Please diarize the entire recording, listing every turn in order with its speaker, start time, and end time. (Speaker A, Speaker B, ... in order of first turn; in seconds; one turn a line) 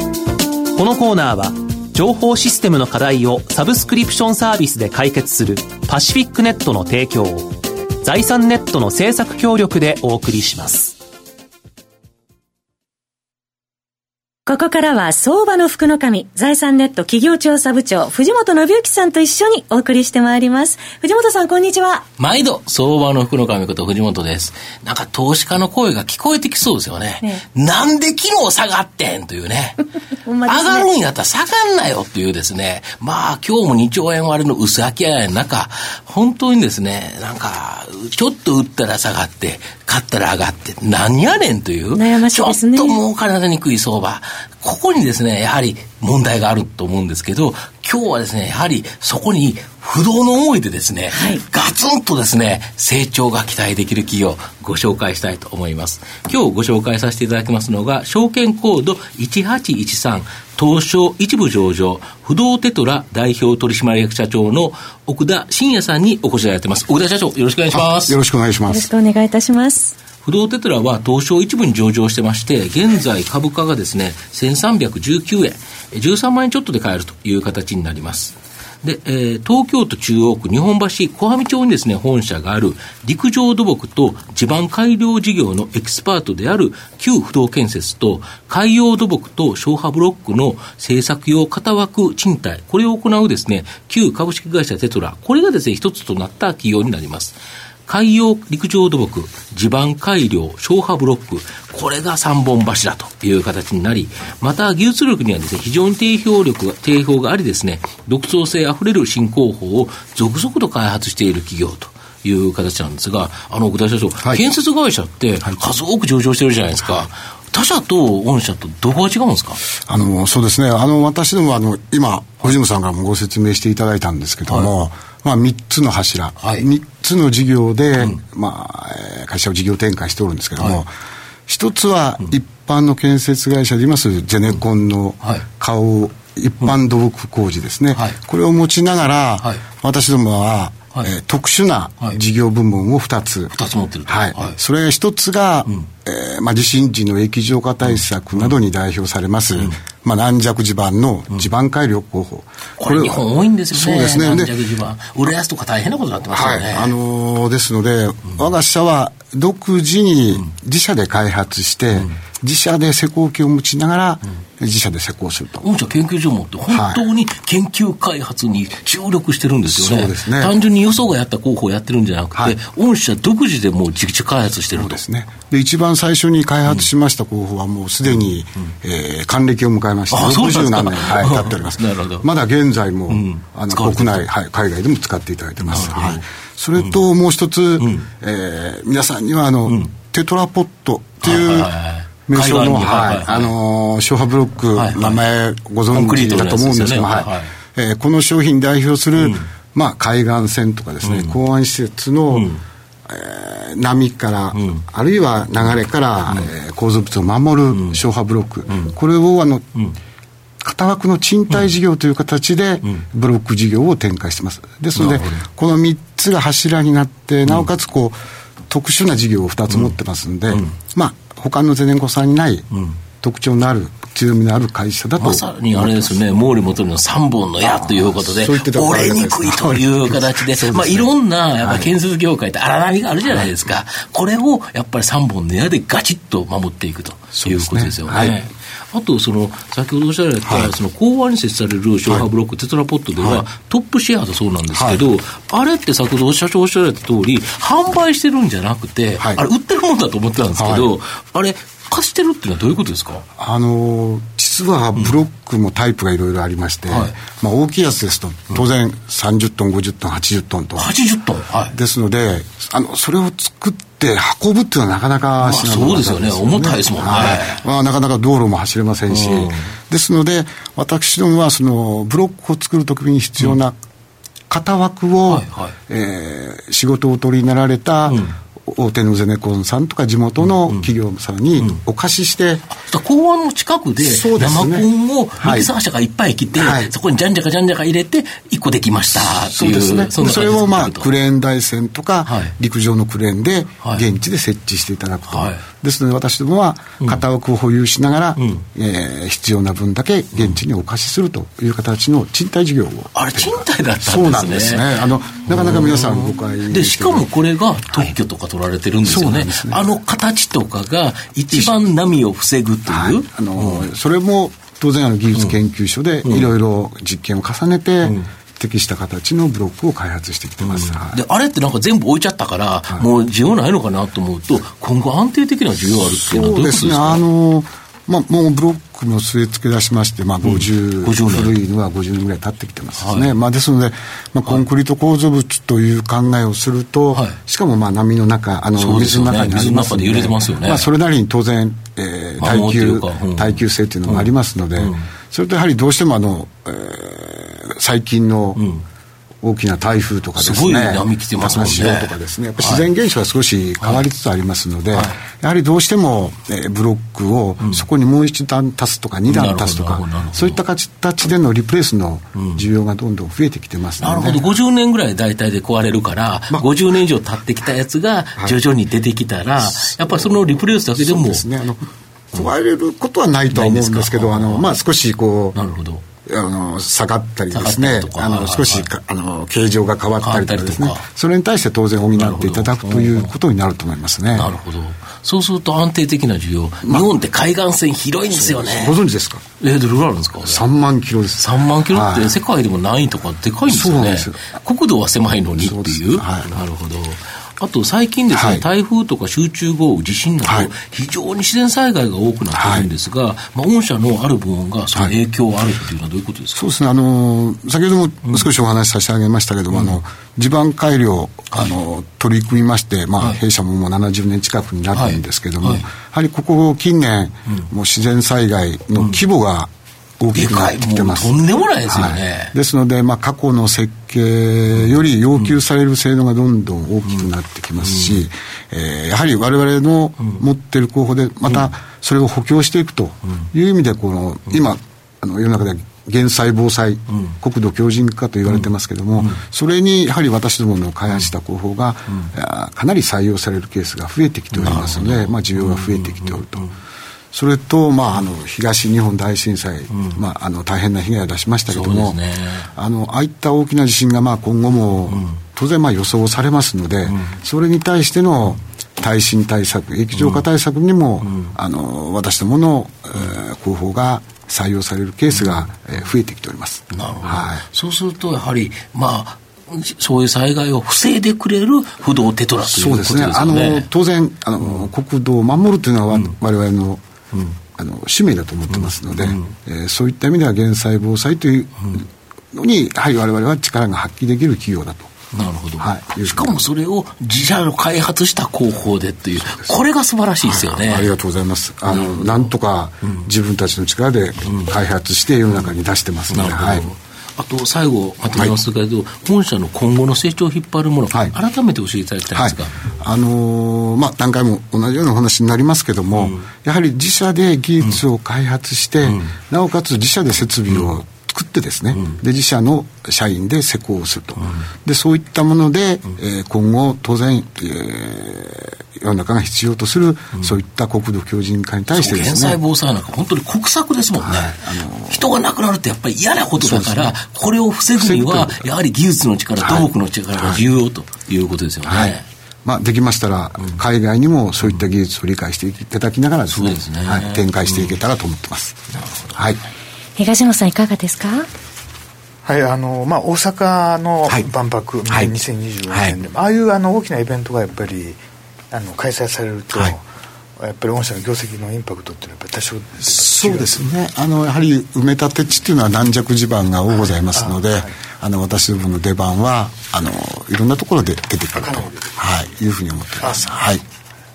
Speaker A: 0.8-11.0
Speaker B: 14.5-22.0
Speaker C: 22.2-29.8
Speaker B: 30.2-30.9
Speaker C: 30.5-68.2
Speaker B: 42.0-43.0
Speaker B: 51.1-51.4
Speaker D: 67.7-68.9
Speaker B: 68.7-70.0
Speaker C: 70.2-119.6
Speaker D: 119.9-130.9
Speaker C: 126.4-126.7
Speaker D: 131.5-143.5
Speaker C: 143.5-144.6
Speaker D: 144.1-154.6
Speaker C: 147.8-148.6
Speaker C: 152.8-157.0
Speaker D: 156.3-165.7
Speaker C: 165.6-175.0
Speaker D: 166.7-167.0
Speaker D: 169.7-170.5
Speaker D: 174.7-191.7
Speaker C: 180.1-182.3
Speaker C: 183.1-184.3
Speaker C: 185.6-186.2
Speaker C: 187.8-188.1
Speaker C: 191.2-193.5
Speaker D: 192.3-202.5
Speaker C: 194.8-195.2
Speaker C: 195.9-197.5
Speaker C: 199.2-199.5
Speaker C: 201.0-201.4
Speaker C: 202.3-202.6
Speaker D: 203.1-209.7
Speaker C: 204.5-204.8
Speaker C: 207.7-208.0
Speaker D: 210.6-218.2
Speaker C: 214.9-215.4
Speaker D: 218.7-222.7
Speaker D: 223.2-226.2
Speaker C: 225.2-253.2
Speaker D: 227.6-231.9
Speaker D: 237.4-238.4
Speaker D: 240.5-240.7
Speaker D: 243.2-243.4
Speaker D: 244.7-245.1
Speaker D: 250.6-250.9
Speaker D: 253.4-260.9
Speaker C: 256.9-257.2
Speaker C: 260.8-261.7
Speaker D: 261.7-273.8
Speaker C: 265.4-267.6
Speaker C: 269.1-269.7
Speaker D: 274.5-282.7
Speaker C: 275.3-275.8
Speaker C: 278.1-278.3
Speaker C: 280.4-280.9
Speaker C: 282.7-291.1
Speaker D: 284.0-284.9
Speaker D: 285.4-285.7
Speaker D: 286.5-286.9
Speaker D: 289.2-307.3
Speaker C: 292.3-292.5
Speaker C: 295.3-295.6
Speaker C: 303.1-313.9
Speaker D: 309.0-309.9
Speaker D: 311.5-311.8
Speaker D: 312.9-321.2
Speaker C: 316.2-316.5
Speaker C: 320.6-327.2
Speaker D: 325.9-348.6
Speaker C: 330.4-331.5
Speaker C: 333.0-333.3
Speaker C: 338.8-340.9
Speaker C: 342.4-345.1
Speaker C: 348.6-348.8
Speaker D: 349.4-364.4
Speaker C: 350.4-352.9
Speaker C: 354.9-355.2
Speaker C: 359.3-360.6
Speaker C: 362.4-362.6
Speaker C: 364.0-371.5
Speaker D: 369.9-375.6
Speaker C: 373.5-374.7
Speaker C: 375.6-376.0
Speaker D: 376.3-384.5
Speaker C: 377.5-378.9
Speaker C: 380.2-381.1
Speaker C: 382.2-383.3
Speaker C: 384.3-389.0
Speaker D: 388.3-389.4
Speaker C: 389.6-390.6
Speaker D: 390.4-392.4
Speaker C: 391.4-406.6
Speaker D: 393.7-394.4
Speaker D: 395.6-396.5
Speaker D: 398.3-398.6
Speaker D: 400.4-400.7
Speaker D: 402.5-402.9
Speaker D: 406.5-446.7
Speaker C: 409.7-410.0
Speaker C: 414.9-415.9
Speaker C: 420.4-422.5
Speaker C: 424.8-425.6
Speaker C: 427.8-428.2
Speaker C: 444.5-446.7
Speaker D: 447.3-452.2
Speaker C: 449.9-450.2
Speaker C: 451.7-452.7
Speaker D: 452.7-467.6
Speaker C: 460.2-460.4
Speaker C: 465.3-465.7
Speaker C: 466.9-473.9
Speaker D: 472.7-477.0
Speaker C: 474.6-474.9
Speaker D: 477.8-485.1
Speaker C: 478.7-479.5
Speaker C: 485.3-491.1
Speaker D: 485.8-486.6
Speaker D: 490.4-496.9
Speaker C: 491.9-492.5
Speaker C: 496.3-502.8
Speaker D: 502.3-522.6
Speaker C: 506.1-506.5
Speaker C: 509.0-509.3
Speaker C: 521.9-532.2
Speaker D: 524.2-525.3
Speaker D: 526.6-527.2
Speaker D: 528.0-528.7
Speaker D: 529.6-530.6
Speaker D: 531.9-538.8
Speaker C: 536.5-538.0
Speaker C: 538.9-539.3
Speaker D: 539.4-539.6
Speaker B: 540.2-541.5
Speaker E: 542.5-548.2
Speaker D: 545.1-545.4
Speaker D: 545.9-546.2
Speaker E: 548.7-550.0
Speaker E: 550.6-553.8
Speaker D: 553.0-563.8
Speaker E: 557.4-557.9